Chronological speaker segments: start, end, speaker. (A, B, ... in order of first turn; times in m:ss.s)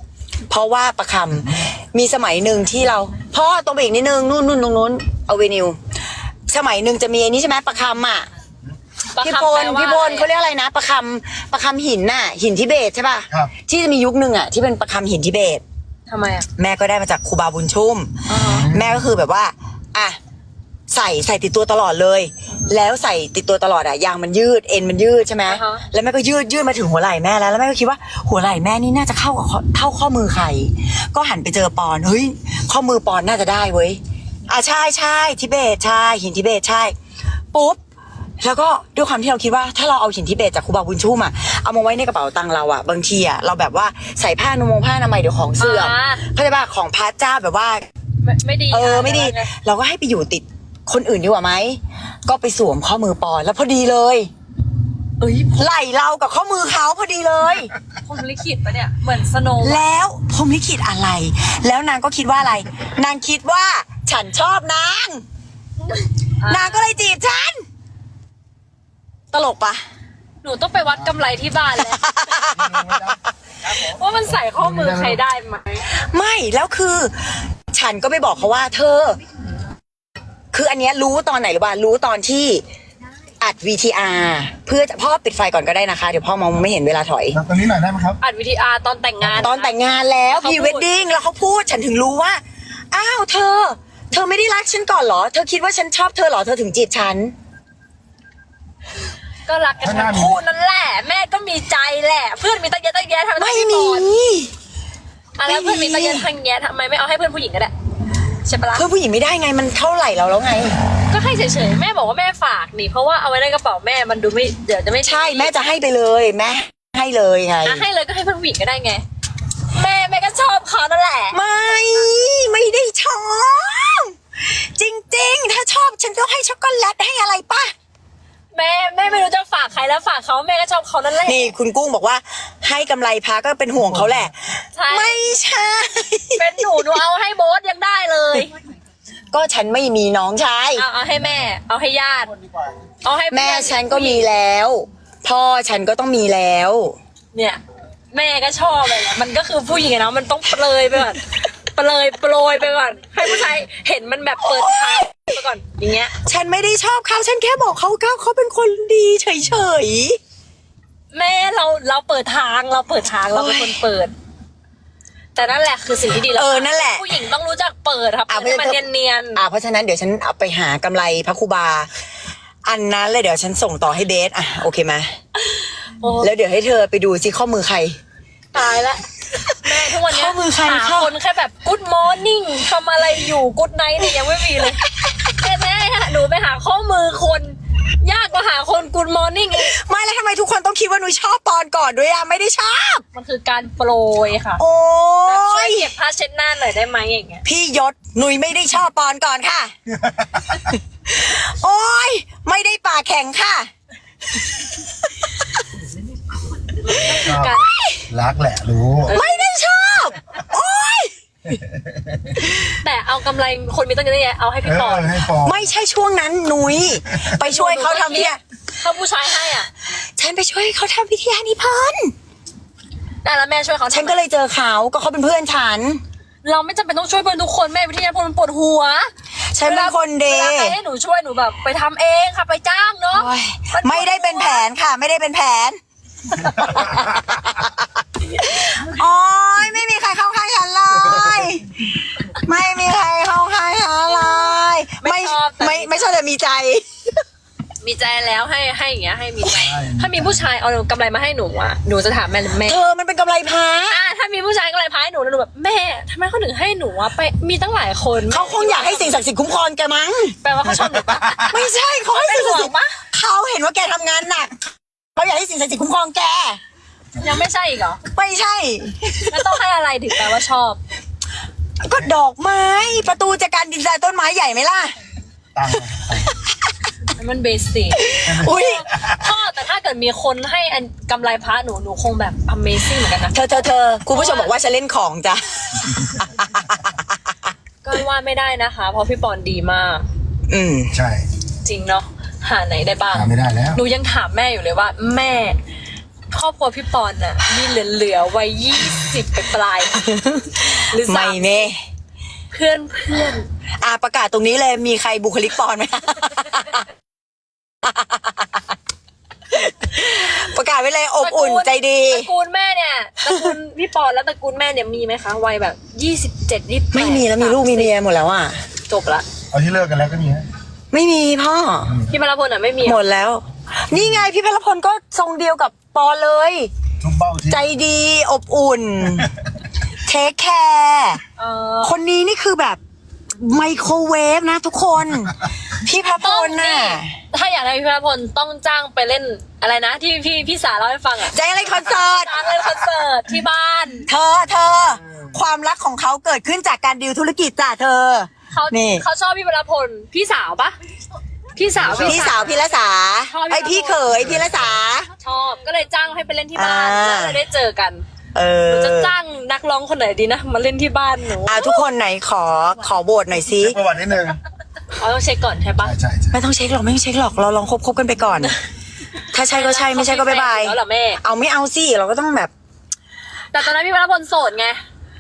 0:00.5-0:05.8 A
0:06.5-0:08.3 A
0:09.1-0:10.3 B
0:09.2-0:15.6 A
0:16.1-0:16.5 B
0:16.6-0:20.2 A
0:18.3-0:18.7 B
0:18.5-0:19.0 C
0:20.9-0:37.0 A
0:25.5-0:25.8 B
0:37.5-0:37.8 A
0:38.4-0:47.9 A
0:45.6-0:46.2 B
0:48.2-0:49.5 B
0:48.7-0:54.3 A
0:55.2-0:55.6 B
0:55.5-0:57.7 A
0:58.0-0:59.8 B
0:59.6-1:05.2 A
1:05.8-1:06.8 B
1:06.5-1:07.6 A
1:09.3-1:09.8 A
1:10.4-1:12.1 B
1:11.8-1:13.2 A
1:12.5-1:13.2 C
1:13.7-1:15.9 B
1:14.3-1:15.2 C
1:15.9-1:17.2 A
1:17.7-1:19.2 A
1:20.5-1:22.6 A
1:23.4-1:27.4 A
1:27.3-1:28.2 C
1:28.2-1:29.8 B
1:29.4-1:37.3 A
1:30.3-1:30.9 B
1:39.5-1:44.1 B
1:39.8-1:40.4 C
1:43.4-1:44.5 A
1:45.4-1:47.7 B
1:45.5-1:46.3 A
1:48.4-1:48.8 B
1:48.7-1:50.8 A
1:51.1-1:55.5 B
1:55.0-1:57.8 A
1:57.6-1:59.0 B
1:59.7-2:02.1 B
2:01.3-2:07.7 A
2:08.5-2:11.5 B
2:11.2-2:16.9 A
2:14.8-2:15.4 B
2:16.4-2:18.5 B
2:19.3-2:20.9 A
2:20.8-2:22.3 B
2:22.4-2:22.7 C
2:23.0-2:24.3 B
2:23.3-2:27.0 A
2:27.3-2:27.6 B
2:28.1-2:36.1 B
2:34.4-2:35.3 A
2:36.2-2:40.2 A
2:41.1-2:44.1 B
2:43.3-2:43.8 A
2:45.4-2:49.4 B
2:46.3-2:47.2 A
2:48.3-2:48.8 A
2:49.4-2:51.9 A
2:52.6-2:55.1 A
2:55.4-2:56.3 B
2:56.2-2:58.0 A
2:58.5-3:09.8 B
2:59.6-3:01.1 A
3:09.6-3:13.0 A
3:13.1-3:14.6 B
3:14.6-3:15.9 A
3:15.2-3:17.4 B
3:17.4-3:19.7 A
3:20.0-3:20.5 C
3:21.0-3:23.7 A
3:24.8-3:25.3 A
3:26.8-3:27.7 B
3:26.8-3:28.1 A
3:27.2-3:27.6 C
3:28.1-3:29.2 C
3:29.1-3:29.5 B
3:29.1-3:31.1 A
3:31.5-3:32.2 C
3:32.6-3:35.2 B
3:34.6-3:35.7 C
3:35.4-3:38.4 A
3:37.4-3:39.7 B
3:39.9-3:42.1 A
3:43.2-3:44.2 B
3:43.9-3:46.0 A
3:46.4-3:49.1 B
3:49.5-3:50.8 A
3:49.6-3:54.6 B
3:53.1-3:55.8 A
3:56.4-4:06.9 A
4:04.0-4:06.2 B
4:07.8-4:12.8 B
4:09.5-4:10.4 C
4:12.6-4:14.0 A
4:13.9-4:19.2 B
4:18.3-4:20.4 A
4:20.4-4:23.0 B
4:21.5-4:26.6 A
4:27.2-4:28.0 B
4:28.1-4:29.3 A
4:29.3-4:30.8 B
4:31.8-4:35.0 A
4:35.5-4:36.3 C
4:36.3-4:36.5 A
4:37.2-4:43.6 B
4:38.0-4:38.8 A
4:38.2-4:39.2 C
4:43.3-4:47.4 A
4:44.1-4:44.5 B
4:47.8-4:50.0 B
4:50.5-4:50.9 A
4:50.9-4:51.2 C
4:51.6-4:55.6 B
4:53.1-4:53.8 C
4:56.3-5:00.0 B
5:00.0-5:01.8 A
5:00.9-5:01.7 B
5:02.5-5:03.5 B
5:03.8-5:06.8 A
5:07.8-5:08.6 A
5:09.5-5:12.3 A
5:11.2-5:17.9 B
5:13.3-5:13.5 A
5:16.9-5:18.6 A
5:18.9-5:19.2 B
5:19.5-5:20.5 C
5:20.9-5:22.0 A
5:22.1-5:23.0 B
5:22.8-5:26.7 A
5:27.0-5:27.6 C
5:27.5-5:29.3 A
5:30.0-5:31.2 A
5:31.4-5:32.0 B
5:31.8-5:32.8 A
5:33.4-5:37.2 A
5:36.2-5:44.0 B
5:41.3-5:42.8 A
5:44.0-5:49.0 A
5:48.5-5:50.8 B
5:51.6-5:52.6 B
5:51.8-5:52.5 C
5:51.9-5:55.1 A
5:53.3-5:54.3 B
5:54.2-5:54.6 C
5:55.2-5:58.0 B
5:56.6-5:57.4 A
5:58.4-5:59.1 A
5:58.7-6:01.8 B
6:01.4-6:03.8 A
6:03.6-6:04.4 C
6:05.0-6:05.9 B
6:05.8-6:06.4 C
6:06.3-6:08.6 A
6:09.3-6:12.5 A
6:09.4-6:11.2 B
6:13.5-6:14.8 B